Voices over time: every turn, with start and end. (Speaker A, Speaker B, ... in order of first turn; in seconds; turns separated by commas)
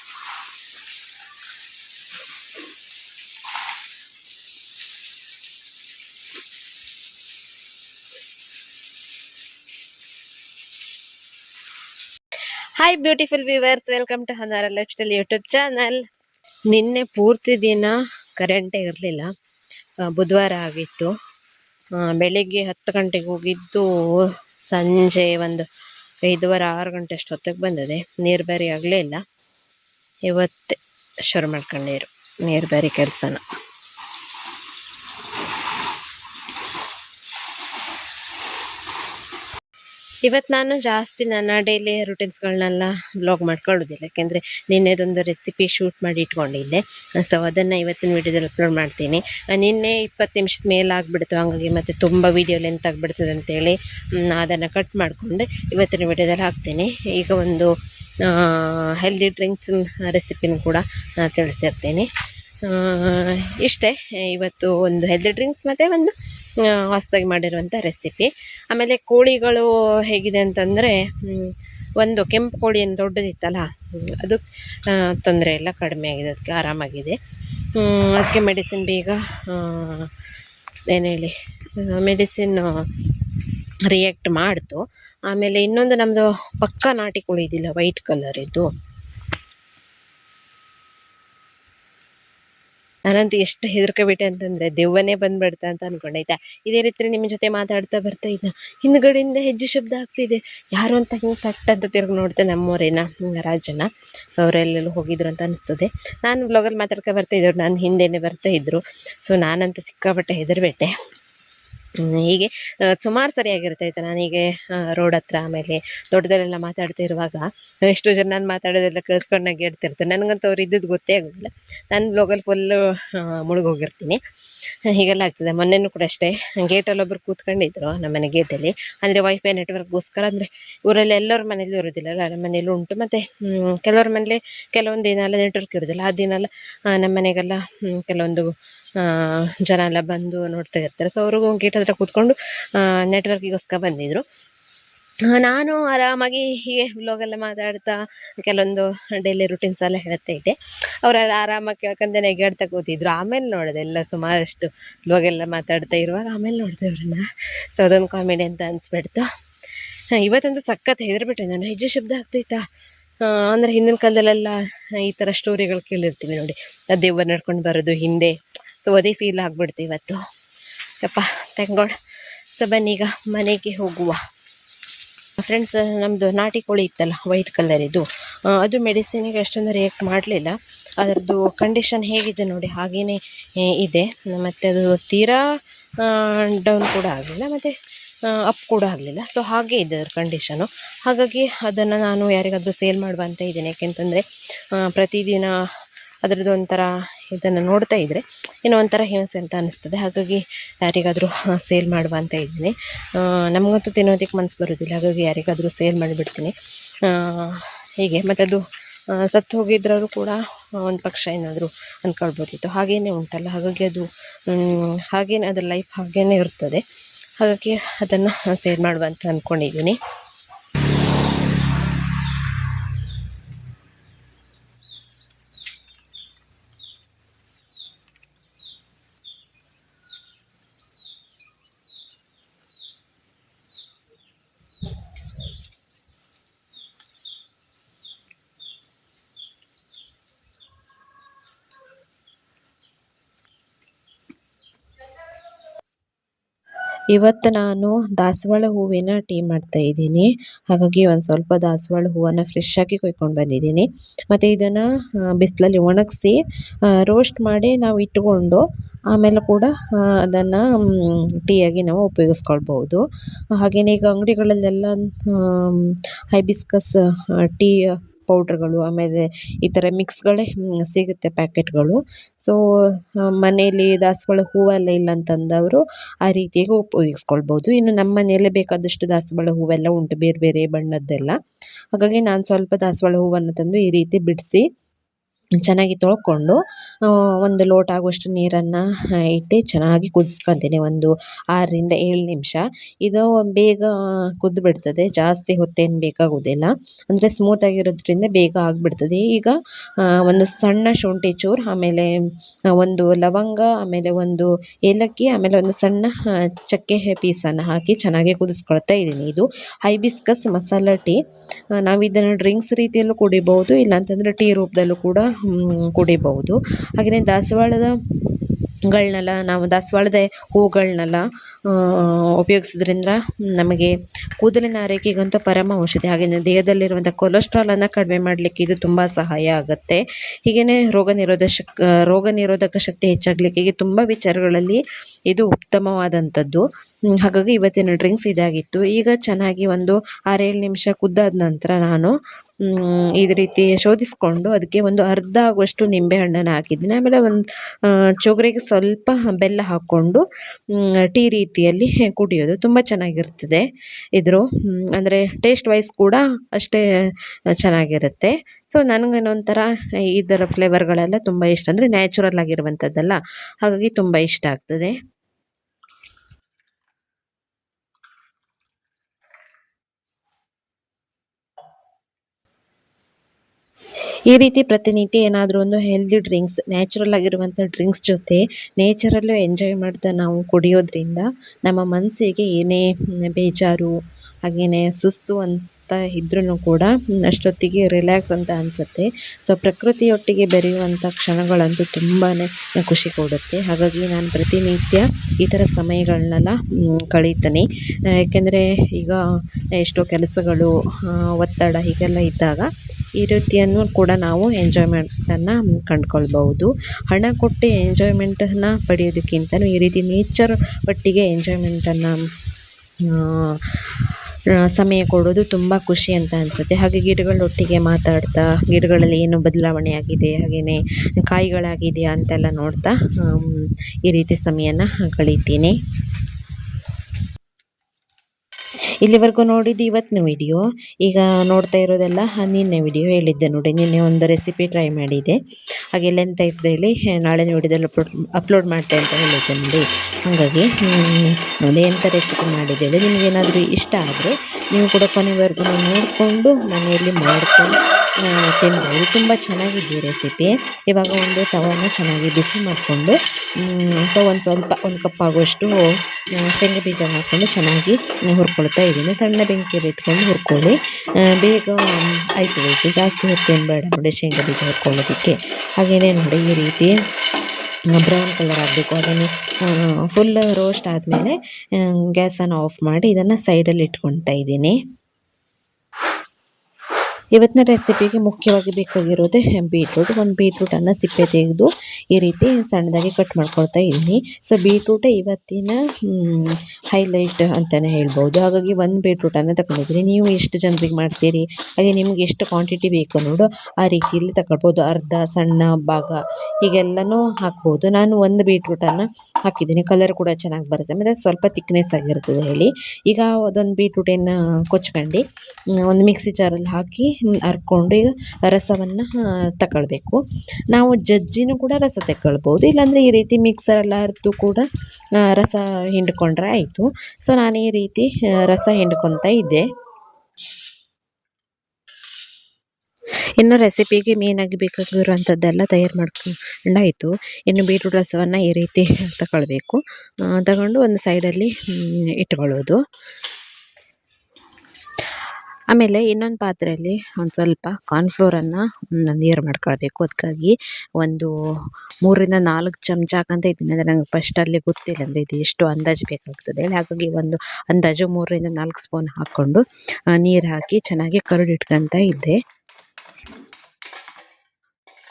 Speaker A: 12.8-16.0, Speaker A: 16.7-19.3, Speaker A: 20.0-21.1, Speaker A: 22.0-25.7, Speaker A: 26.2-29.2, Speaker A: 30.3-33.4, Speaker A: 40.2-62.1, Speaker A: 62.6-80.1, Speaker A: 80.9-83.3, Speaker A: 83.8-88.7, Speaker A: 93.1-110.9, Speaker A: 112.0-144.2, Speaker A: 145.3-162.7, Speaker A: 163.2-170.2, Speaker A: 171.0-172.0, Speaker A: 172.5-174.2, Speaker A: 175.4-185.4, Speaker A: 186.0-195.6, Speaker A: 196.2-216.8, Speaker A: 217.4-220.0, Speaker A: 247.1-281.4, Speaker A: 281.9-284.6, Speaker A: 285.6-311.2, Speaker A: 311.7-336.6, Speaker A: 337.2-365.0, Speaker A: 374.3-399.2, Speaker A: 399.8-412.2, Speaker A: 413.0-425.7, Speaker A: 429.0-435.4, Speaker A: 435.9-466.9, Speaker A: 467.9-474.8, Speaker A: 477.3-505.2, Speaker A: 505.8-514.6, Speaker A: 515.2-519.6, Speaker A: 523.4-532.8, Speaker A: 535.7-541.3, Speaker A: 542.0-552.4